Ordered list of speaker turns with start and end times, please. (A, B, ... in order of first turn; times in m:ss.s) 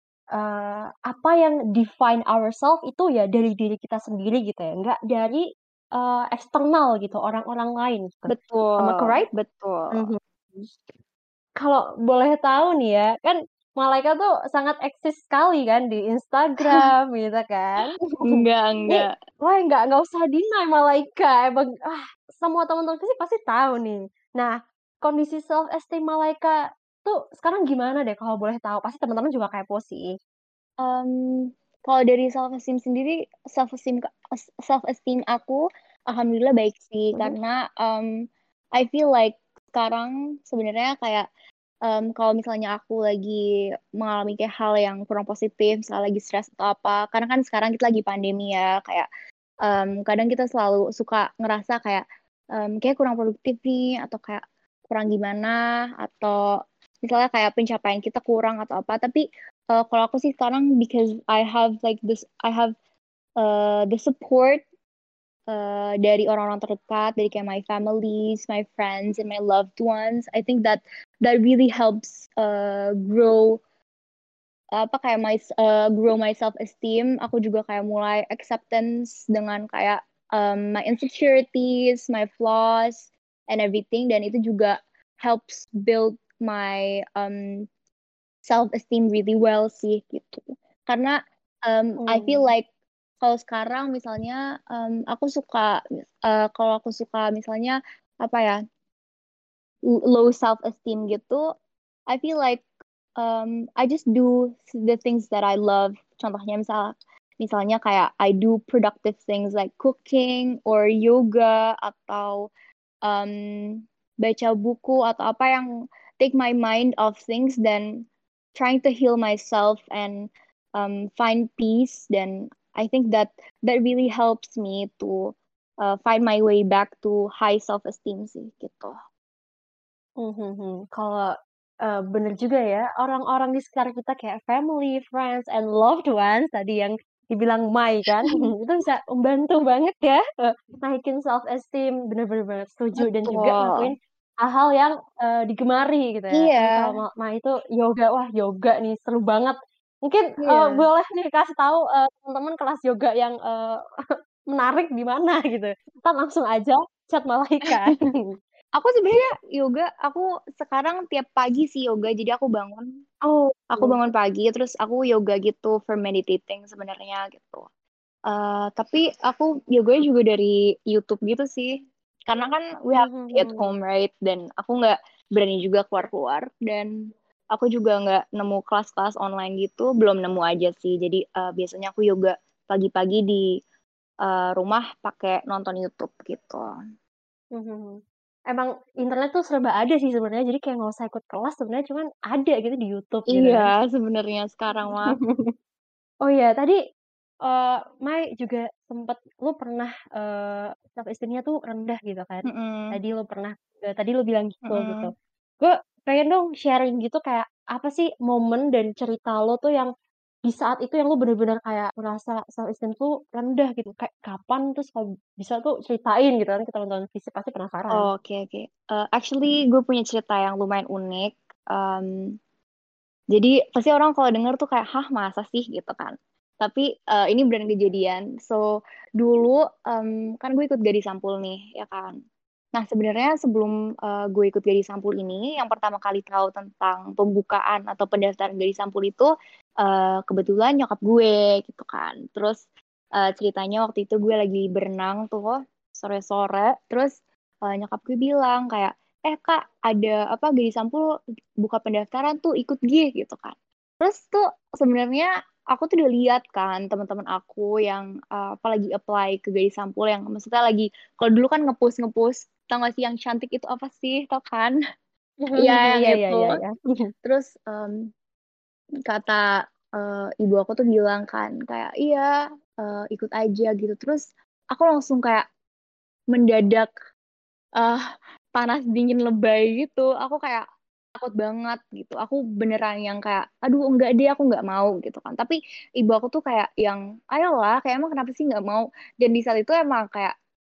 0:00.4-0:05.4 A
0:05.9-0:09.3 A
0:08.3-0:10.1 B
0:09.9-0:10.7 A
0:11.6-0:30.2 A
0:18.2-0:19.1 B
0:30.8-0:38.1 B
0:38.7-0:41.2 B
0:41.8-0:49.1 B
0:49.6-0:56.4 B
0:57.0-1:02.7 B
1:03.4-1:04.6 B
1:05.5-1:13.6 B
1:14.7-1:27.6 B
1:28.4-1:32.7 B
1:32.0-1:32.5 A
1:33.2-1:38.6 B
1:39.9-1:41.4 B
1:42.1-1:42.6 B
1:43.2-1:52.5 B
1:53.0-2:09.0 B
2:10.2-2:33.8 A
2:23.0-2:23.9 B
2:26.3-2:27.0 B
2:30.4-2:30.9 B
2:34.5-2:38.2 A
2:38.8-2:42.9 B
2:43.2-2:44.0 A
2:43.7-2:47.6 B
2:48.3-2:56.9 B
2:52.9-2:53.7 A
2:57.5-3:03.5 B
3:04.2-3:06.7 B
3:07.5-3:13.7 A
3:13.3-3:15.2 B
3:15.1-3:15.5 A
3:16.2-3:16.8 A
3:17.4-3:29.9 A
3:22.5-3:23.0 B
3:24.6-3:25.1 B
3:30.4-3:38.1 A
3:37.9-3:42.4 B
3:43.3-3:52.2 B
3:52.7-4:02.6 B
4:03.2-4:11.1 B
4:11.6-4:24.8 B
4:25.4-4:27.1 A
4:25.6-4:26.6 B
4:27.2-4:28.1 B
4:29.0-4:35.4 B
4:36.3-4:36.9 B
4:38.5-4:40.6 B
4:41.2-4:50.3 B